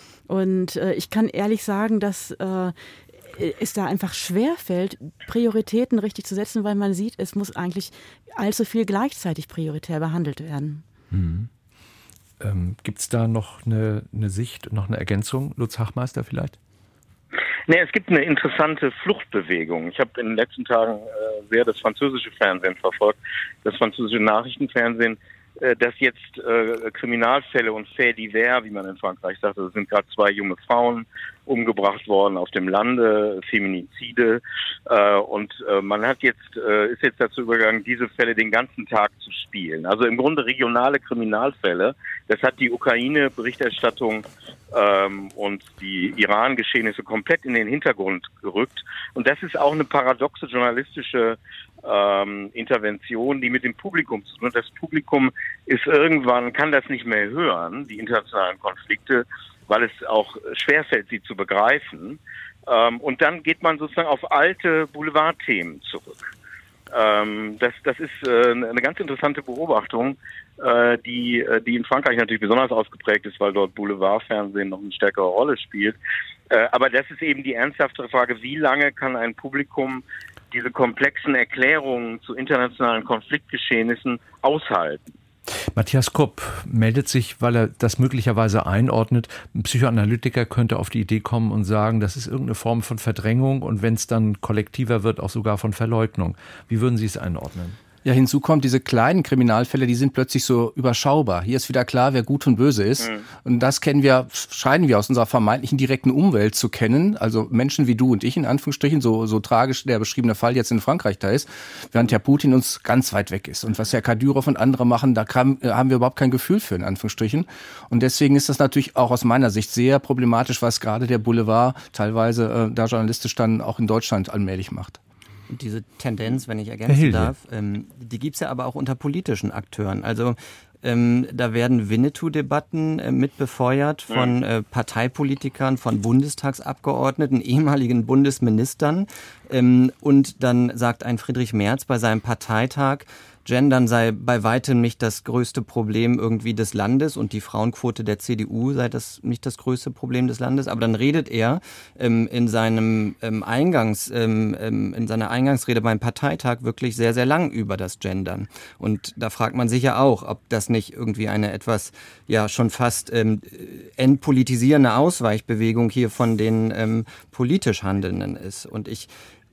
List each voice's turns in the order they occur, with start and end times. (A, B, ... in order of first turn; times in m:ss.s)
0:00.3-0:02.7 A
0:03.3-0:10.8 A
0:11.1-0:11.5 B
0:12.4-0:16.6 B
0:17.7-1:06.2 C
1:06.9-1:16.0 C
1:16.5-1:25.1 C
1:25.7-1:37.8 B
1:38.0-2:05.0 D
2:05.5-2:49.1 E
2:06.9-2:07.3 B